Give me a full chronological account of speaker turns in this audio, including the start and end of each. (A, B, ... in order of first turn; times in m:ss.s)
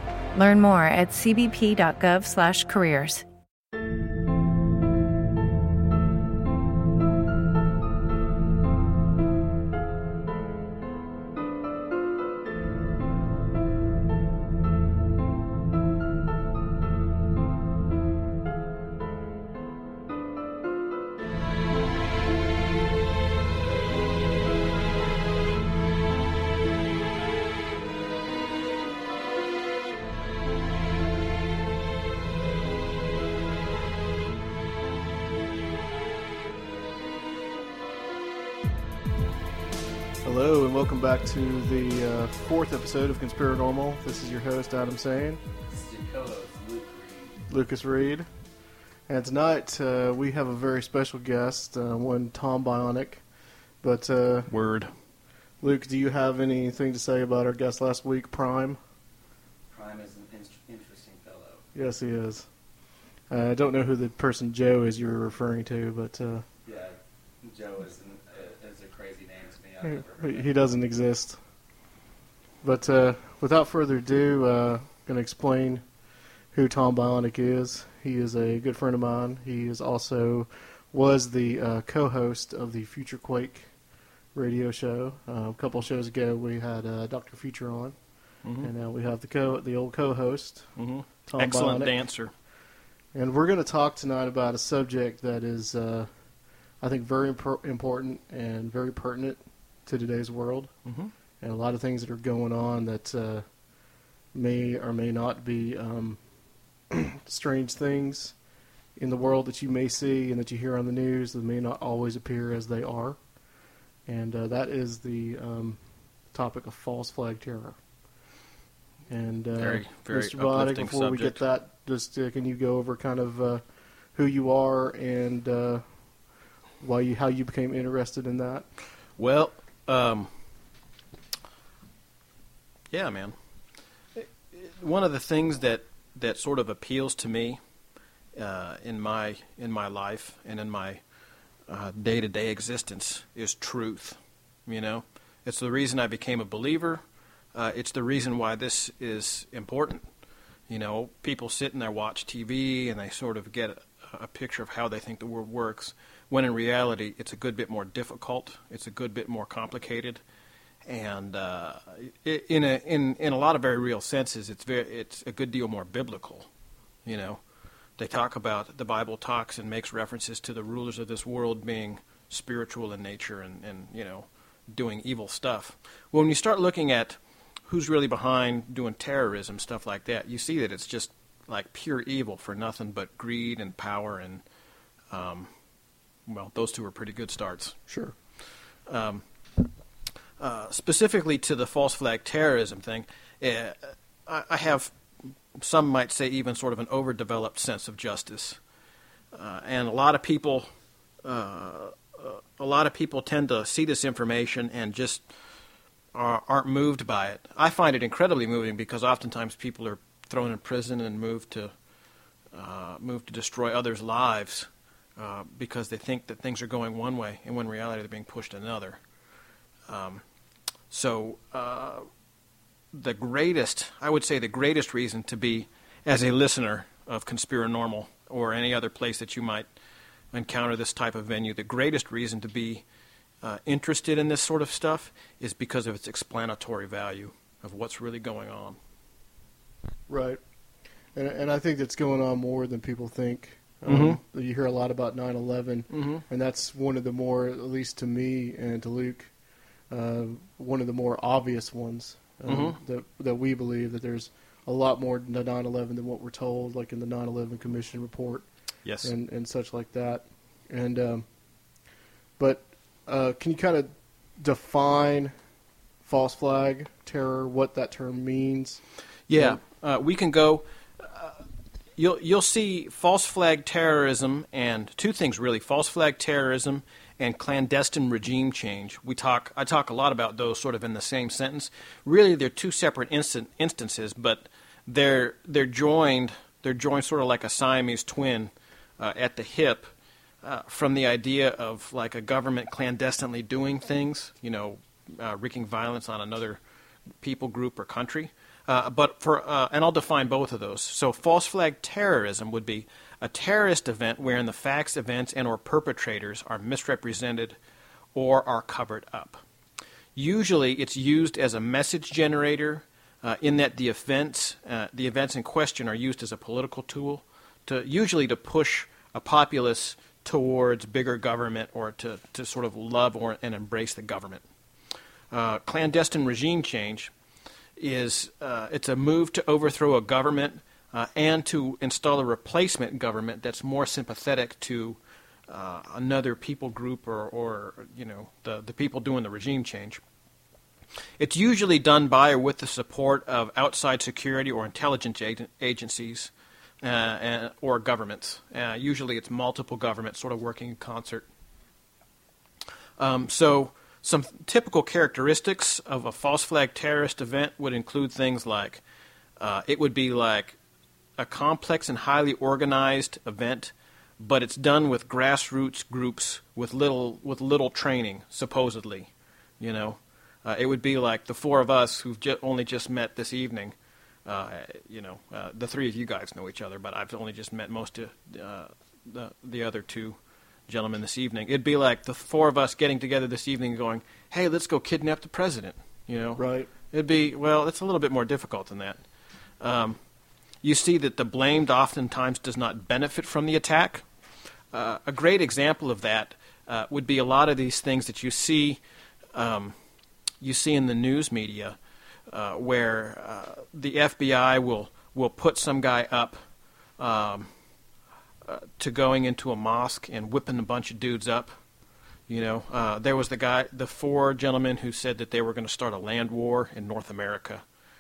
0:00.3-0:03.2 A
0:40.2-0:45.4 B
0:45.7-0:47.4 C
0:47.5-0:48.3 B
0:49.1-0:54.5 B
0:54.5-0:54.9 D
0:55.6-0:58.8 B
0:59.7-1:01.7 C
1:01.7-1:06.5 B
1:06.6-1:10.5 C
1:09.8-1:11.4 B
1:12.6-1:15.9 B
1:16.5-1:23.7 B
1:24.3-1:30.8 B
1:28.4-1:28.7 D
1:30.8-1:32.3 D
1:31.3-1:32.0 B
1:33.1-1:40.7 B
1:40.9-1:41.1 D
1:41.4-1:43.5 B
1:44.3-1:46.2 B
1:46.9-1:48.4 B
1:49.0-1:53.2 B
1:54.0-1:57.8 B
1:59.1-2:06.3 B
1:59.6-2:01.4 D
2:06.8-2:08.7 B
2:09.2-2:10.3 D
2:12.9-2:13.4 D
2:14.2-2:17.6 D
2:18.4-2:21.0 D
2:21.7-2:27.0 D
2:27.5-2:30.0 D
2:30.7-2:40.2 D
2:40.9-2:46.5 D
2:47.0-2:47.4 D
2:48.0-3:04.4 D
3:05.1-3:05.5 D
3:06.3-3:07.8 D
3:07.9-3:08.2 B
3:08.9-3:09.7 D
3:10.4-3:18.6 D
3:19.3-3:20.7 D
3:21.2-3:25.2 D
3:26.1-3:31.7 D
3:32.5-3:39.0 D
3:39.9-3:40.2 D
3:40.9-3:42.1 D
3:42.9-3:49.7 D
3:50.3-3:52.8 D
3:53.4-3:58.8 D
4:00.1-4:00.4 B
4:01.1-4:09.3 B
4:03.9-4:04.2 D
4:05.9-4:06.2 D
4:09.9-4:18.5 B
4:12.5-4:12.8 D
4:18.8-4:19.1 D
4:19.0-4:21.3 B
4:22.4-4:25.3 B
4:26.0-4:28.8 B
4:29.3-4:31.4 D
4:29.3-4:29.6 B
4:32.0-4:49.9 D
4:50.4-4:56.6 D
4:57.2-5:07.6 D
5:08.2-5:09.4 D
5:10.2-5:24.4 D
5:25.3-5:27.1 D
5:27.8-5:40.0 D
5:41.2-5:51.3 D
5:53.0-5:58.8 D
5:59.4-6:00.6 D
6:01.2-6:13.7 D
6:14.2-6:20.2 D
6:20.7-6:29.0 D
6:26.4-6:26.7 B
6:29.6-6:30.0 D
6:30.6-6:34.0 D
6:34.7-6:38.8 D
6:39.3-6:39.7 D
6:40.4-6:41.8 D
6:42.3-6:46.4 D
6:47.0-6:47.5 D
6:48.4-6:51.5 D
6:52.3-6:57.6 D